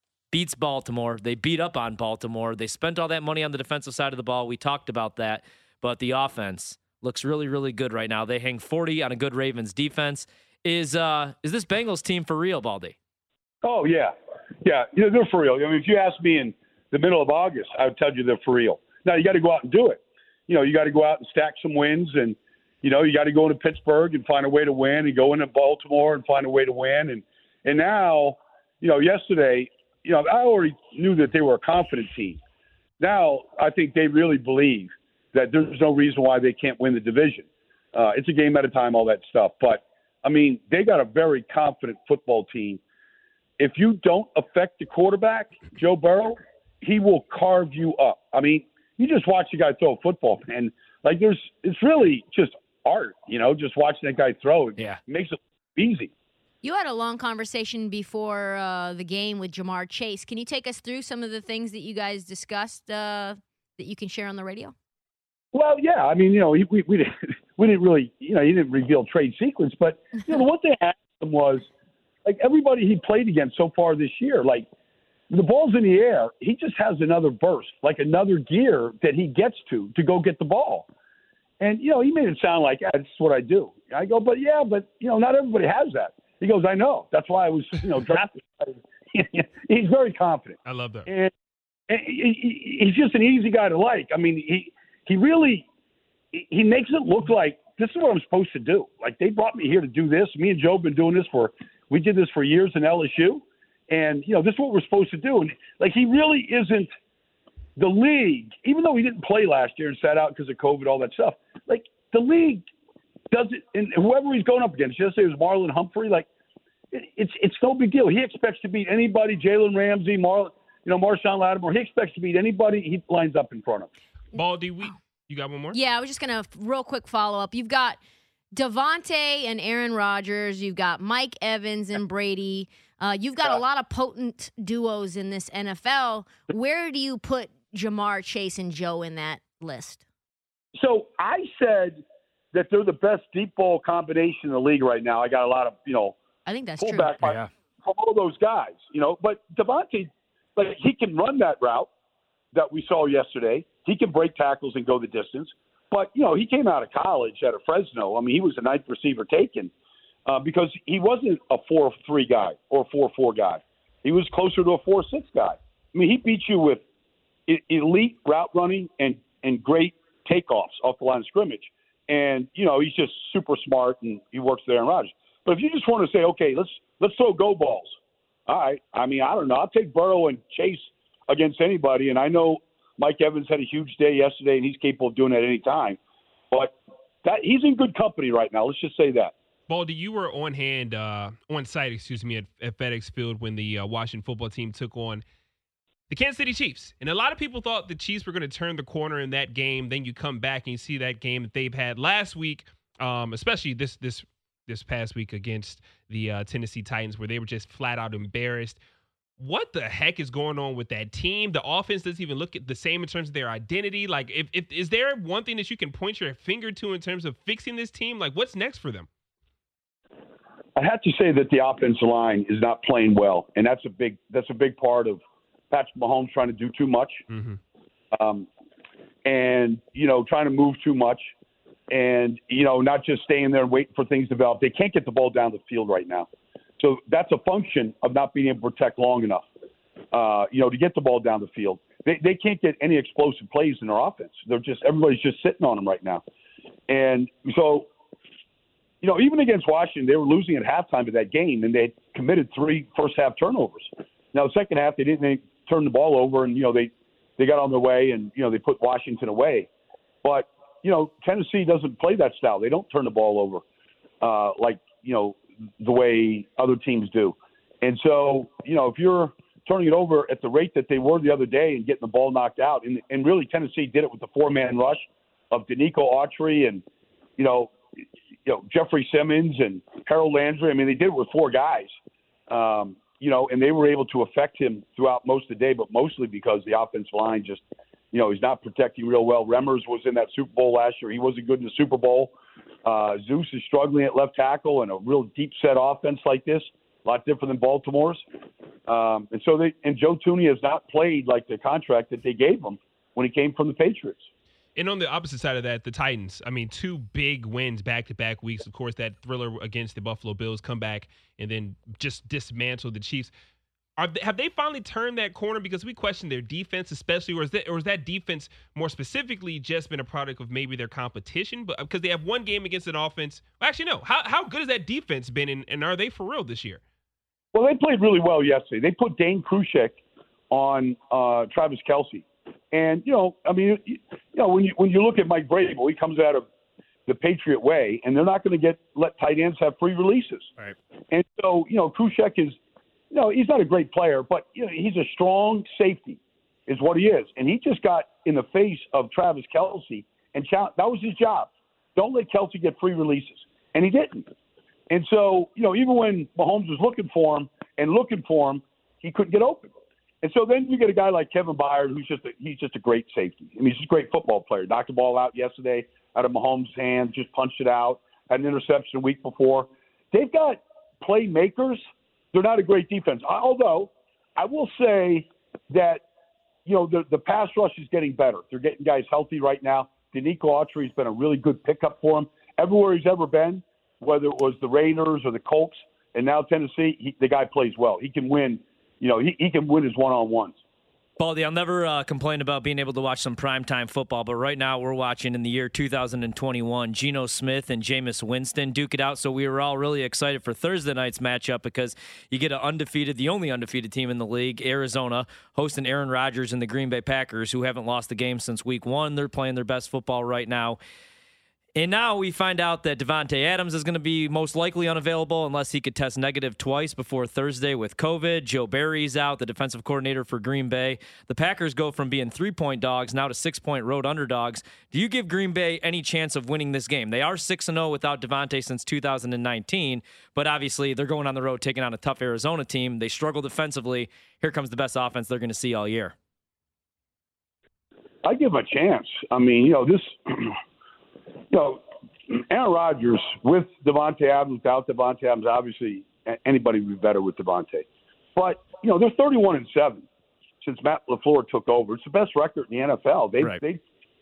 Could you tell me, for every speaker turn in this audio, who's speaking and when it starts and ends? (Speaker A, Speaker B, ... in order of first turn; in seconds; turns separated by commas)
Speaker A: 0.3-13.0, Speaker B: 13.6-32.4, Speaker B: 33.0-42.8, Speaker B: 43.6-56.1, Speaker C: 56.6-64.7, Speaker B: 65.5-71.7, Speaker B: 72.2-74.7, Speaker B: 75.3-80.9, Speaker B: 81.6-91.3, Speaker D: 90.7-91.1, Speaker B: 91.9-95.7, Speaker B: 96.3-106.9, Speaker B: 107.8-112.7, Speaker B: 113.3-116.3, Speaker B: 116.9-123.9, Speaker D: 124.3-125.8, Speaker C: 125.7-128.0, Speaker C: 128.5-140.0, Speaker B: 140.8-142.0, Speaker B: 142.5-146.2, Speaker C: 146.5-147.1, Speaker B: 146.8-151.9, Speaker A: 147.2-147.5, Speaker B: 152.5-159.7, Speaker B: 160.3-166.8, Speaker B: 167.5-177.9, Speaker B: 178.5-186.0, Speaker B: 186.5-189.3, Speaker D: 189.7-195.2, Speaker D: 196.1-208.8, Speaker D: 209.4-219.1, Speaker B: 220.8-225.2, Speaker B: 225.7-227.2, Speaker D: 227.3-227.6, Speaker B: 228.1-228.5, Speaker B: 229.2-231.3, Speaker B: 231.9-236.3, Speaker B: 236.8-239.5, Speaker B: 240.1-246.2, Speaker B: 246.9-247.9, Speaker B: 249.0-259.7, Speaker B: 260.2-263.6, Speaker B: 264.2-276.8, Speaker B: 277.4-277.7, Speaker B: 278.4-281.9, Speaker B: 282.5-292.3, Speaker B: 292.8-298.2, Speaker B: 298.9-304.3, Speaker D: 304.8-313.3, Speaker D: 314.0-326.8, Speaker B: 327.5-330.0, Speaker B: 330.5-336.4, Speaker B: 337.1-340.5, Speaker B: 341.1-342.6, Speaker B: 343.1-354.3, Speaker B: 354.9-371.8, Speaker B: 372.3-376.0, Speaker B: 376.7-390.6, Speaker A: 391.2-410.8, Speaker A: 411.8-436.1, Speaker B: 438.2-440.6, Speaker B: 441.5-450.1, Speaker B: 450.6-453.8